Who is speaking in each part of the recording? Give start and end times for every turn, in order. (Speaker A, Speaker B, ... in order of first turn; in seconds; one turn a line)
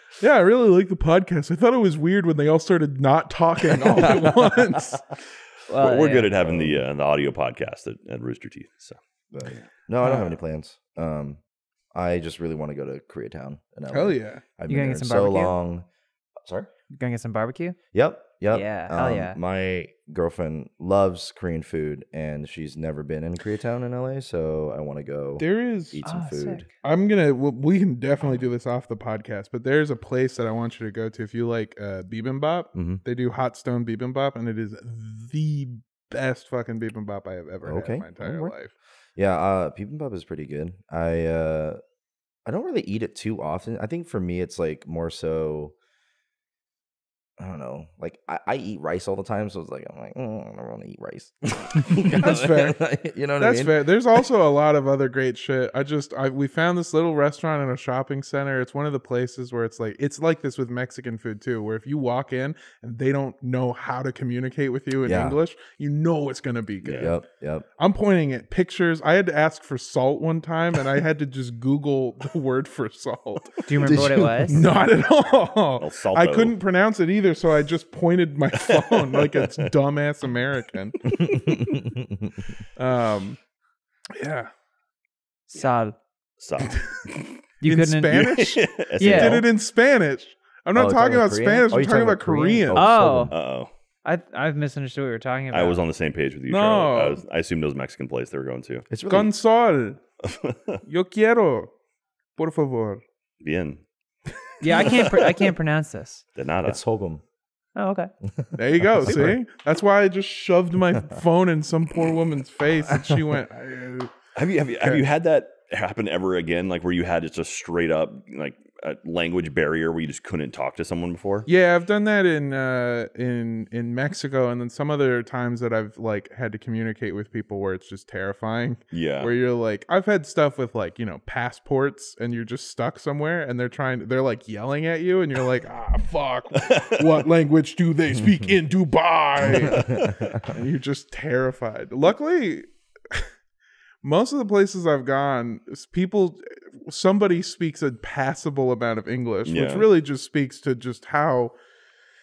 Speaker A: 0.2-5.0
Speaker B: 5.7-6.3
Speaker C: 5.8-9.0
Speaker D: 6.4-6.8
Speaker D: 9.3-11.4
Speaker A: 10.0-10.3
Speaker D: 11.9-15.9
Speaker A: 13.9-14.4
Speaker B: 14.7-15.5
Speaker D: 16.4-16.7
Speaker B: 16.9-17.8
Speaker D: 17.9-26.7
Speaker B: 18.5-19.4
Speaker A: 25.4-26.0
Speaker B: 26.0-26.7
Speaker A: 26.8-38.7
Speaker D: 32.8-33.0
Speaker D: 37.6-38.5
Speaker D: 39.2-41.8
Speaker D: 42.5-45.7
Speaker D: 47.4-53.9
Speaker A: 52.0-52.8
Speaker A: 53.4-67.2
Speaker D: 65.0-65.4
Speaker C: 66.8-67.1
Speaker D: 67.0-67.7
Speaker A: 67.8-73.7
Speaker B: 73.7-74.6
Speaker D: 73.8-74.5
Speaker A: 74.4-81.0
Speaker C: 75.8-76.5
Speaker C: 78.6-79.7
Speaker D: 81.2-82.4
Speaker A: 82.8-83.4
Speaker A: 84.2-84.5
Speaker B: 85.5-86.0
Speaker C: 86.4-87.4
Speaker A: 87.6-92.9
Speaker B: 87.6-88.2
Speaker C: 88.4-89.5
Speaker B: 89.0-89.4
Speaker D: 90.8-93.3
Speaker B: 92.8-93.3
Speaker C: 93.3-93.7
Speaker B: 94.0-95.8
Speaker C: 95.5-98.9
Speaker A: 96.5-97.2
Speaker D: 98.9-99.3
Speaker A: 99.1-100.0
Speaker C: 100.2-100.8
Speaker A: 100.9-101.7
Speaker A: 102.4-103.0
Speaker C: 103.4-103.8
Speaker B: 104.6-106.2
Speaker C: 104.8-105.4
Speaker C: 106.4-106.8
Speaker D: 106.7-107.2
Speaker B: 107.8-108.1
Speaker D: 108.4-109.4
Speaker A: 108.5-114.1
Speaker C: 114.3-121.5
Speaker A: 121.5-143.3
Speaker C: 128.9-129.3
Speaker C: 136.6-137.1
Speaker D: 139.7-140.2
Speaker A: 144.0-151.5
Speaker C: 149.5-149.9